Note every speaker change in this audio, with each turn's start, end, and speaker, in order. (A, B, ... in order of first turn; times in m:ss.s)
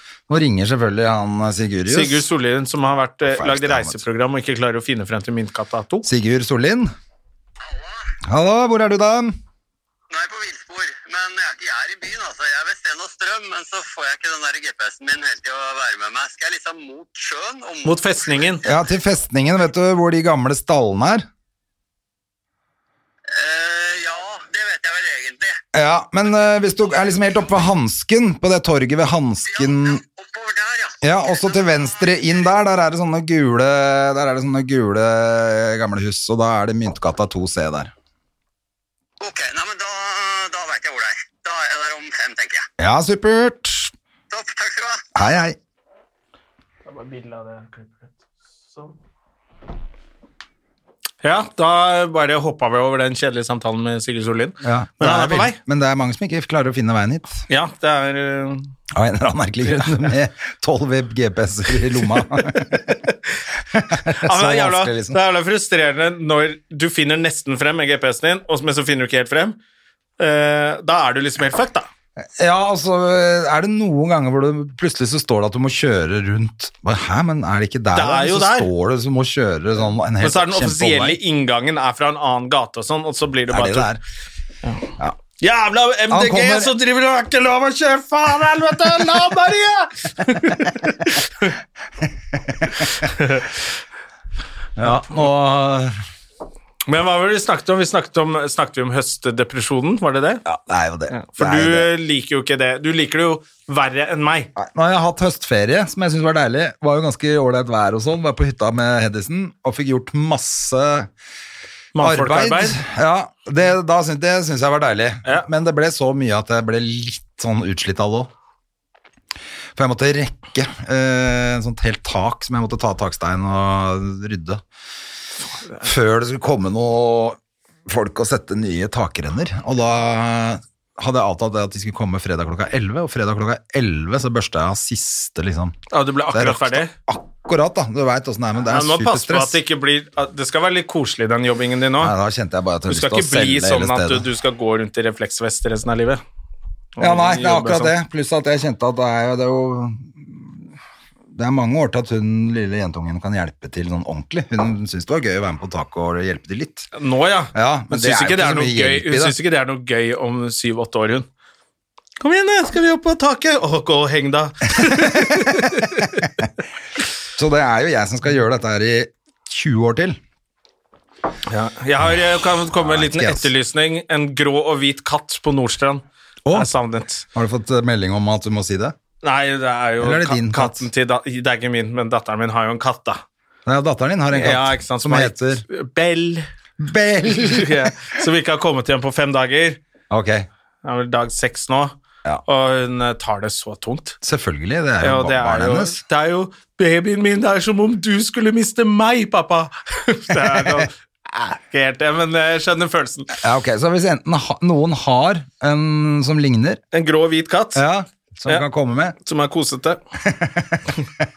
0:00.3-0:02.3 A
0:01.9-0:06.1 B
0:03.2-0:04.0 A
0:06.0-0:06.9 A
0:08.2-0:09.4 A
0:10.1-0:18.0 C
0:17.8-0:18.6 B
0:18.6-0:21.2 A
0:23.3-0:25.6 C
0:25.7-0:30.0 A
0:30.1-0:31.0 C
0:31.0-0:37.9 A
0:39.2-0:42.7 C
0:42.8-0:43.9 A
0:44.3-0:45.0 C
0:45.1-0:45.6 A
0:46.8-0:49.0 B
0:51.2-0:55.6 B
0:54.6-0:57.4 A
0:57.5-0:58.7 B
0:58.9-1:02.9 A
1:03.7-1:05.2 A
1:04.2-1:09.6 B
1:10.2-1:11.9 B
1:12.4-1:21.2 A
1:17.9-1:18.7 B
1:20.2-1:23.9 B
1:23.5-1:24.0 A
1:24.6-1:31.5 B
1:26.1-1:26.7 A
1:32.8-1:33.6 B
1:34.8-1:35.9 A
1:34.8-1:35.1 B
1:36.9-1:40.4 B
1:40.4-1:41.9 A
1:41.1-1:44.5 B
1:44.6-1:51.1 A
1:51.9-1:52.8 B
1:52.0-1:58.3 A
1:59.8-2:04.6 A
2:05.8-2:15.8 A
2:15.9-2:16.9 B
2:16.3-2:19.6 A
2:18.7-2:22.1 B
2:22.0-2:24.3 A
2:22.9-2:26.2 B
2:27.0-2:27.9 B
2:27.0-2:30.6 A
2:31.3-2:36.9 A
2:36.9-2:41.3 B
2:37.5-2:39.4 A
2:42.2-2:46.2 B
2:44.8-2:46.4 A
2:47.4-2:50.2 A
2:51.5-2:57.2 B
2:52.0-2:53.5 A
2:57.3-2:58.9 A
2:59.2-3:03.2 B
3:00.0-3:00.8 A
3:03.6-3:05.6 A
3:04.3-3:06.4 B
3:06.8-3:07.9 A
3:07.3-3:09.8 B
3:10.1-3:10.5 A
3:10.8-3:11.9 B
3:12.4-3:14.2 B
3:14.2-3:16.0 A
3:15.0-3:23.3 B
3:20.4-3:20.8 A
3:23.4-3:26.8 A
3:26.9-3:27.8 B
3:27.7-3:29.2 A
3:29.2-3:30.0 B
3:30.2-3:31.0 A